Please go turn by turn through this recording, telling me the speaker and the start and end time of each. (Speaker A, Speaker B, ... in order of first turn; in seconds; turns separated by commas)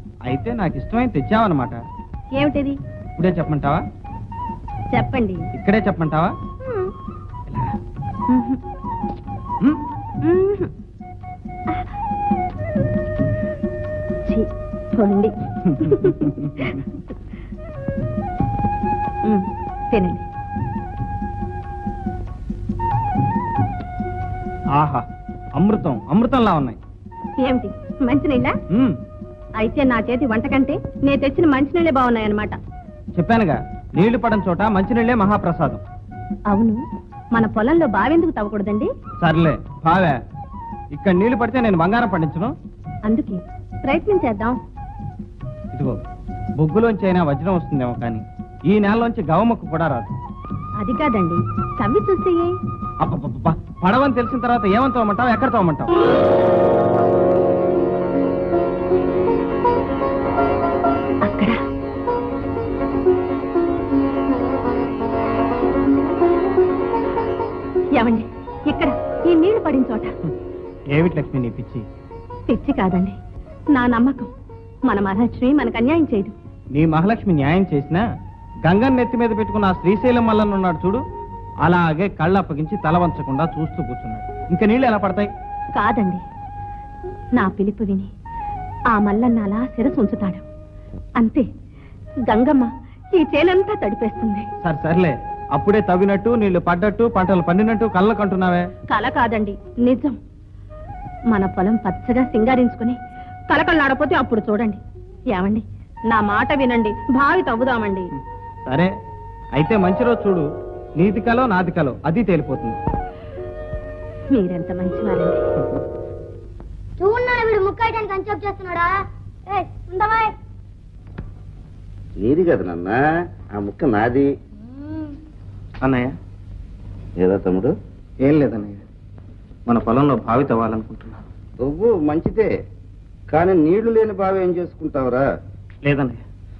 Speaker A: 0.3-1.8, Speaker B: 2.3-2.8, Speaker A: 3.1-3.8, Speaker B: 4.9-5.5, Speaker A: 5.5-6.3, Speaker A: 7.5-7.7, Speaker B: 8.3-8.6, Speaker B: 10.2-10.7, Speaker B: 14.3-16.8, Speaker A: 16.1-16.7, Speaker B: 19.2-20.2, Speaker A: 24.8-25.0, Speaker A: 25.6-26.8, Speaker B: 27.4-28.6, Speaker B: 29.6-32.5, Speaker A: 33.1-35.8, Speaker B: 36.5-36.8, Speaker B: 37.3-38.9, Speaker A: 39.2-40.2, Speaker A: 40.9-42.5, Speaker B: 43.1-44.6, Speaker A: 46.6-50.1, Speaker B: 50.8-52.5, Speaker A: 53.0-55.9, Speaker B: 61.2-61.5, Speaker B: 68.0-70.1, Speaker A: 70.9-71.8, Speaker B: 72.5-73.2, Speaker B: 73.7-74.3, Speaker B: 74.9-76.3, Speaker A: 76.7-78.0, Speaker A: 78.6-81.0, Speaker A: 81.6-85.3, Speaker B: 85.7-86.2, Speaker B: 87.3-88.1, Speaker B: 88.9-90.4, Speaker B: 91.2-91.4, Speaker B: 92.3-94.5, Speaker A: 94.6-98.7, Speaker B: 98.9-100.2, Speaker B: 101.3-103.0, Speaker B: 103.5-104.8, Speaker B: 105.3-108.1, Speaker A: 108.7-108.9, Speaker A: 109.5-110.5, Speaker A: 111.0-112.8, Speaker B: 114.3-115.4, Speaker C: 117.0-118.9, Speaker C: 119.5-120.3, Speaker D: 122.2-123.0, Speaker D: 123.5-124.3, Speaker A: 125.8-126.1, Speaker D: 127.2-127.7, Speaker A: 128.2-128.8, Speaker A: 129.7-131.2, Speaker D: 131.6-132.5, Speaker D: 133.3-135.2, Speaker A: 135.8-136.2